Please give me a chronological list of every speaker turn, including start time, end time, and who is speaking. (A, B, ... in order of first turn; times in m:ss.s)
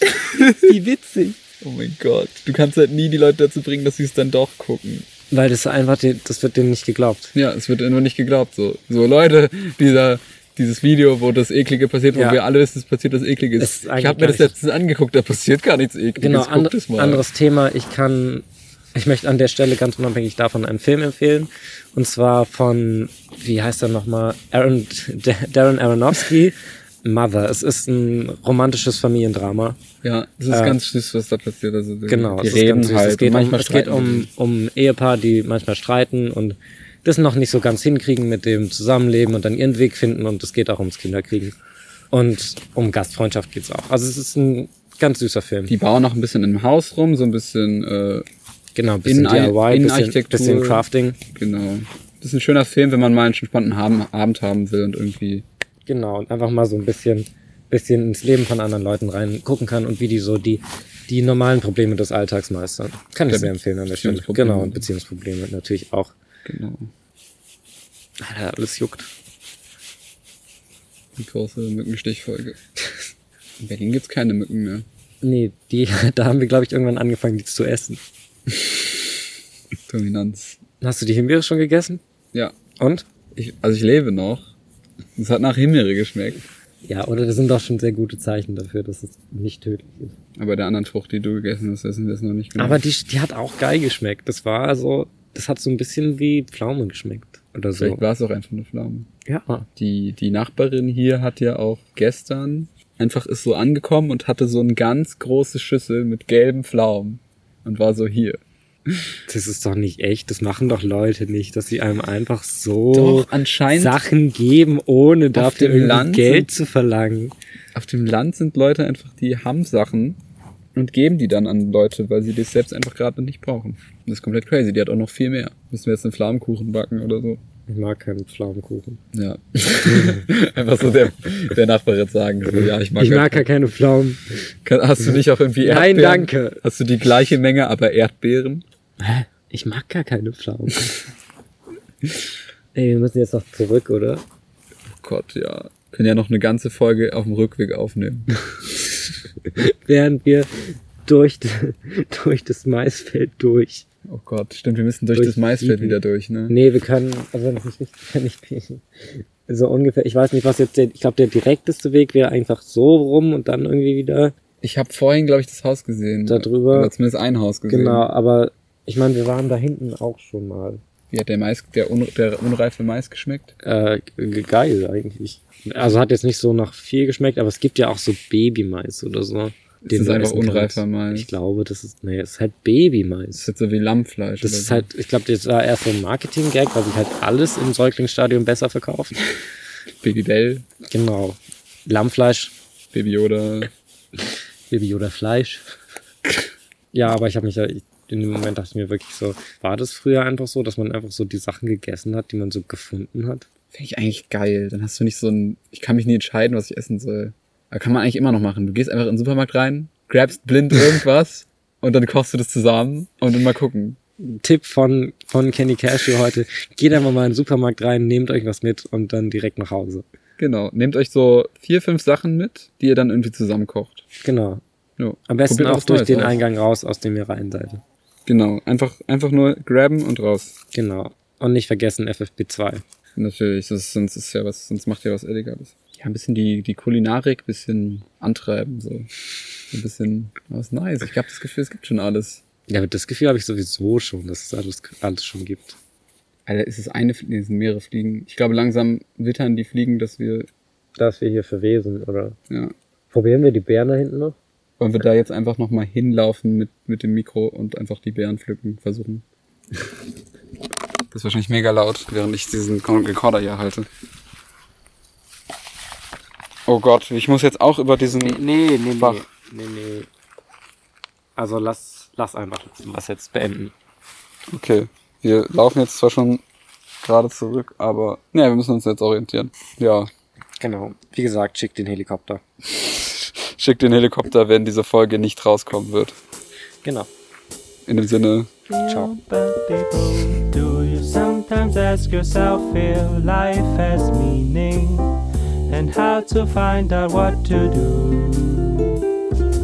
0:00.2-0:00.7 A
0:00.6-0:01.4 B
0:01.6-0:05.1 A
0:05.3-0:07.3 B
0:07.3-0:17.2 A
0:12.1-0:12.4 B
0:13.6-0:14.5 B
0:16.2-0:29.8 B
0:30.0-0:34.3 A
0:30.5-0:30.8 B
0:32.1-0:41.5 B
0:42.1-0:45.7 B
0:45.7-0:48.2 A
0:48.7-0:51.2 B
0:49.0-0:55.4 A
0:55.9-1:06.1 B
1:03.3-1:04.8 A
1:06.4-1:06.9 A
1:08.2-1:09.1 B
1:11.2-1:12.6 A
1:13.6-1:14.8 A
1:15.2-1:18.0 B
1:19.9-1:20.6 A
1:20.8-1:22.0 B
1:22.8-1:23.0 B
1:23.3-1:24.5 A
1:25.2-1:26.4 A
1:26.8-1:30.2 B
1:30.4-1:32.8 A
1:32.6-1:38.0 B
1:37.8-1:39.1 A
1:39.2-1:39.7 B
1:39.8-1:49.0 A
1:49.3-1:57.3 B
1:52.9-1:54.0 A
1:55.3-1:56.5 A
1:57.7-2:00.2 A
2:00.7-2:07.4 A
2:07.7-2:09.0 B
2:09.1-2:13.5 A
2:09.7-2:10.2 B
2:13.0-2:14.5 B
2:14.6-2:18.6 A
2:15.6-2:16.6 B
2:19.0-2:21.0 B
2:22.7-2:24.2 B
2:24.9-2:28.3 A
2:29.5-2:33.8 B
2:34.0-2:36.5 A
2:35.1-2:44.3 B
2:44.6-2:48.0 A
2:46.2-2:46.9 B
2:47.7-2:50.8 B
2:51.1-2:53.5 A
2:53.6-3:03.5 B
2:59.8-3:01.3 A
3:03.3-3:04.9 A
3:04.4-3:09.1 B
3:10.0-3:10.6 A
3:10.9-3:12.5 B
3:12.9-3:13.7 A
3:14.7-3:15.7 B
3:16.9-3:23.5 B
3:23.7-3:34.0 A
3:34.2-3:40.0 B
3:40.4-3:44.0 A
3:44.2-3:44.6 B
3:45.0-3:46.4 A
3:45.3-3:47.8 B
3:48.2-3:50.6 A
3:50.7-3:52.8 B
3:53.2-3:59.1 A
3:59.7-4:02.4 A
4:02.7-4:05.8 B
4:06.4-4:10.5 A
4:11.0-4:12.4 B
4:13.1-4:14.4 B
4:14.8-4:19.2 A
4:21.1-4:23.9 A
4:26.7-4:28.4 A
4:28.2-4:30.1 B
4:29.0-4:29.2 A
4:31.4-4:33.7 B
4:34.5-4:36.4 A
4:37.0-4:40.1 A
4:40.6-4:42.4 B
4:42.8-4:46.2 A
4:46.8-4:47.1 B
4:47.8-4:48.5 A
4:48.7-4:55.2 C
4:48.8-4:49.1 B
4:55.7-4:59.0 C